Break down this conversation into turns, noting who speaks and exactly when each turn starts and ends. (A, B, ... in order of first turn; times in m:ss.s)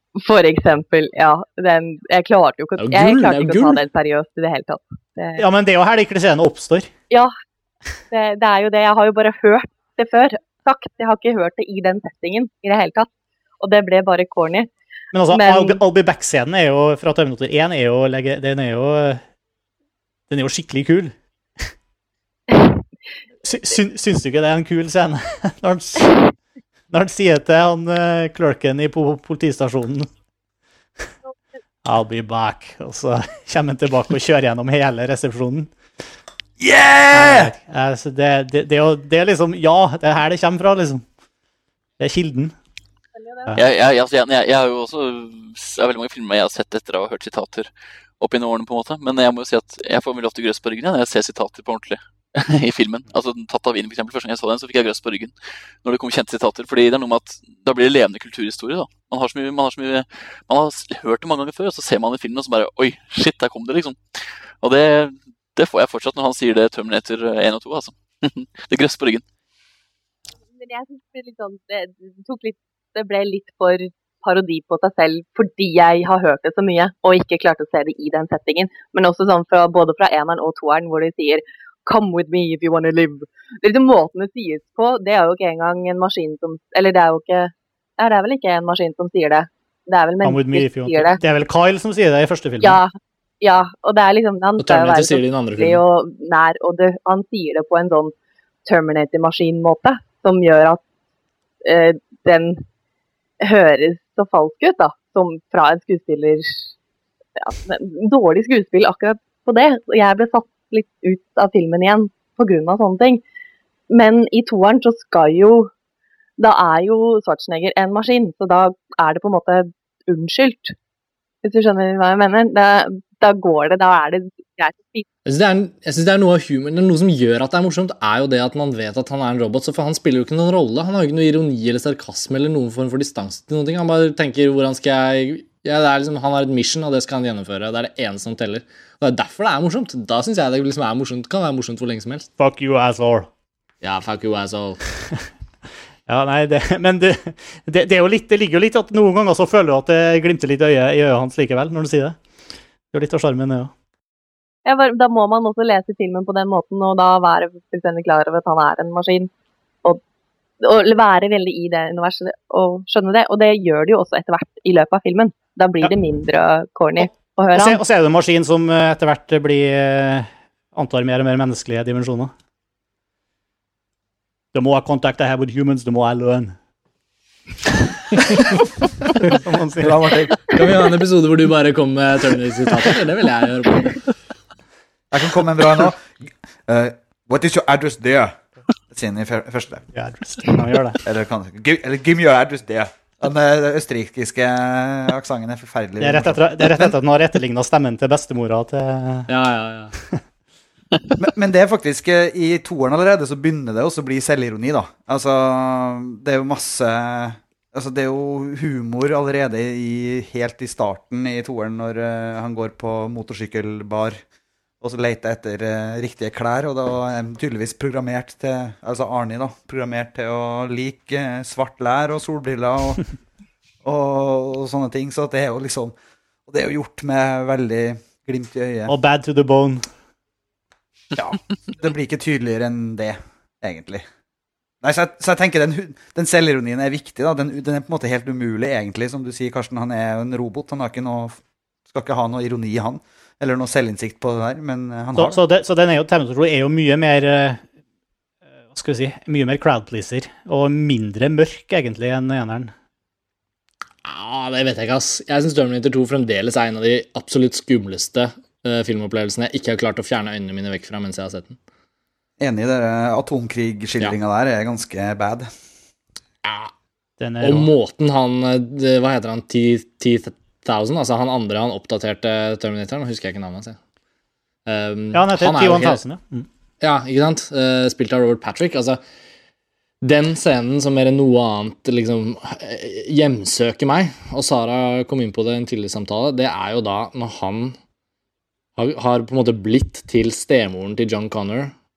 0:00.2-0:05.4 A
0:02.8-0:03.8 B
0:05.4-0:06.9 C
0:08.1-0:13.1 A
0:13.6-0:14.7 A
0:15.1-0:19.2 C
0:15.3-0:15.8 A
0:20.3-0:21.1 C
0:22.5-0:22.8 A
0:23.4-0:26.2 C
0:26.9-0:30.1 C
0:31.8-0:35.7 C
0:36.6-0:37.5 D
0:37.1-0:41.0 C
0:42.0-0:42.5 C
0:43.1-0:43.5 A
0:43.6-1:09.2 E
1:10.5-1:31.2 A
1:30.2-1:32.8 C
1:32.6-1:38.1 A
1:34.6-1:35.8 B
1:38.6-1:40.8 A
1:41.6-1:42.6 A
1:43.4-1:46.6 A
1:47.4-1:53.2 A
1:53.9-1:55.7 A
1:56.4-2:00.7 A
2:01.4-2:05.0 A
2:05.2-2:22.3 B
2:22.4-2:23.3 C
2:23.8-2:24.8 B
2:26.1-2:32.2 C
2:32.9-2:33.7 C
2:34.6-2:39.3 A
2:40.6-2:47.8 A
2:47.5-2:52.3 C
2:54.5-2:56.5 C
2:59.2-2:59.9 C
2:59.8-3:00.4 D
3:00.5-3:04.1 B
3:05.1-3:06.1 D
3:06.7-3:08.4 D
3:08.9-3:09.8 D
3:09.9-3:11.0 C
3:11.0-3:16.9 D
3:16.0-3:19.3 C
3:19.3-3:19.9 B
3:21.2-3:34.2 D
3:34.8-3:43.0 D
3:43.8-3:45.9 D
3:46.5-3:48.9 D
3:48.9-3:49.9 C
3:51.1-3:54.0 D
3:54.8-4:05.4 D
4:05.1-4:07.6 C
4:08.7-4:12.7 C
4:14.0-4:21.6 B
4:22.4-4:25.5 D
4:26.4-4:26.7 B
4:27.2-4:27.7 C
4:27.4-4:33.8 B
4:34.6-4:36.0 B
4:35.1-4:36.5 C
4:36.8-4:39.0 B
4:40.0-4:47.8 B
4:48.8-4:51.7 B